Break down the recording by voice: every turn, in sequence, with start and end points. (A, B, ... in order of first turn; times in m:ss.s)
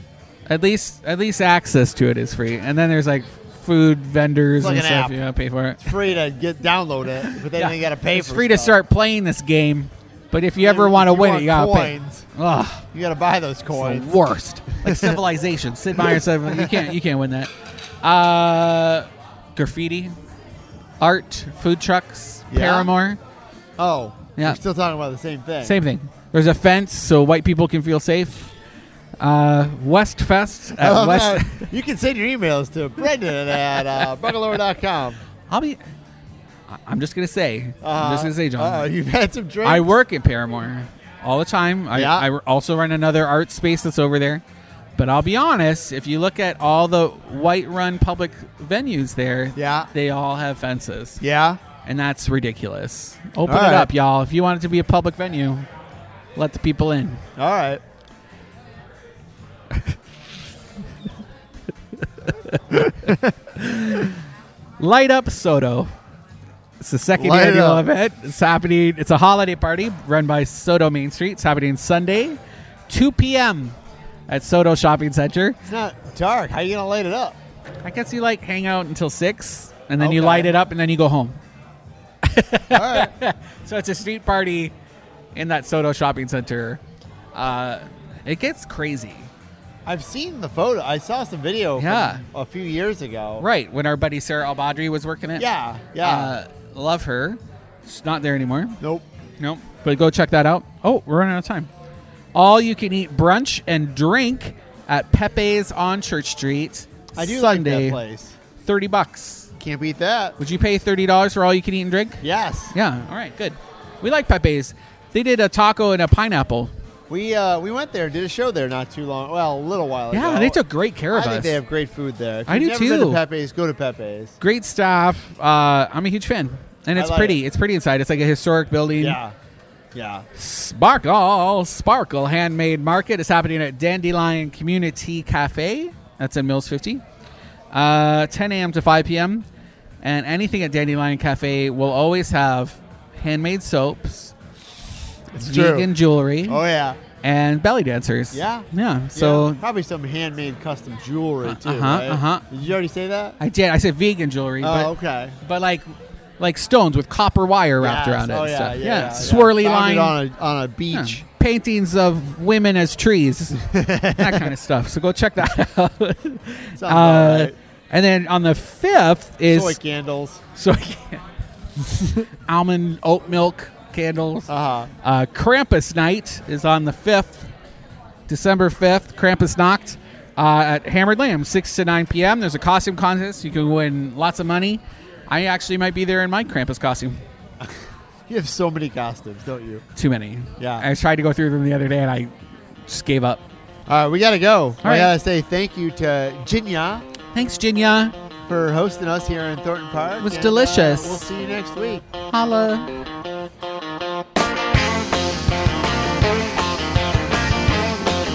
0:00.5-0:05.9 A
0:04.6-0:05.2 B
0:05.8-0:08.8 B
0:07.2-0:12.8 A
0:10.6-0:12.3 B
0:12.9-0:14.2 B
0:13.7-0:20.1 A
0:14.7-0:15.2 B
0:16.0-0:16.9 B
0:21.0-0:23.2 A
0:22.5-0:22.9 B
0:23.8-0:25.8 B
0:25.6-0:28.5 A
0:29.2-0:31.7 A
0:30.8-0:35.2 B
0:35.5-0:35.8 A
0:36.7-0:38.9 A
0:37.8-0:39.9 B
0:39.6-0:44.4 A
0:41.9-0:42.3 B
0:45.0-0:51.2 A
0:49.6-0:49.9 B
0:51.2-0:51.6 B
0:51.8-0:55.7 A
0:53.4-0:53.9 B
0:56.4-0:57.2 A
0:57.4-0:57.8 B
1:02.2-1:04.2 A
1:02.7-1:03.3 B
1:04.8-1:05.9 A
1:06.8-1:13.8 A
1:07.2-1:07.8 B
1:14.3-1:15.6 A
1:15.6-1:17.4 B
1:17.8-1:21.4 A
1:20.0-1:20.5 B
1:22.2-1:24.7 A
1:22.7-1:23.1 B
1:25.3-1:26.8 A
1:27.3-1:29.3 A
1:29.8-1:33.4 B
1:31.8-1:32.2 A
1:33.4-1:35.5 A
1:35.4-1:36.4 B
1:36.0-1:38.8 A
1:38.8-1:39.1 B
1:39.4-1:41.7 A
1:42.3-1:48.0 A
1:47.1-1:48.4 B
1:48.6-1:49.5 A
1:49.6-1:50.4 B
1:50.4-1:56.7 A
1:52.2-1:52.7 B
1:57.1-2:00.6 B
2:00.1-2:01.6 A
2:01.1-2:04.4 B
2:02.5-2:03.2 A
2:04.4-2:09.2 A
2:06.9-2:07.4 B
2:09.0-2:09.3 B
2:09.9-2:10.3 B
2:10.3-2:17.0 A
2:17.7-2:19.4 A
2:20.0-2:24.3 A
2:25.3-2:25.9 B
2:25.4-2:26.6 A
2:26.4-2:27.0 B
2:27.2-2:29.6 A
2:28.3-2:33.4 B
2:31.4-2:32.4 A
2:33.4-2:35.8 A
2:34.6-2:35.4 B
2:36.4-2:40.2 A
2:37.8-2:41.2 B
2:40.9-2:43.6 A
2:43.6-2:44.5 B
2:44.2-2:49.8 A
2:46.8-2:47.5 B
2:49.5-2:50.4 B
2:50.5-2:51.2 A
2:52.4-2:54.5 A
2:54.5-2:54.9 B
2:55.0-2:57.5 A
2:58.3-3:07.2 A
3:08.3-3:09.8 B
3:10.0-3:12.3 A
3:10.6-3:10.9 B
3:12.8-3:13.4 A
3:13.9-3:17.0 B
3:14.8-3:15.1 A
3:17.3-3:18.1 A
3:18.5-3:22.0 B
3:20.2-3:21.2 A
3:22.3-3:22.9 A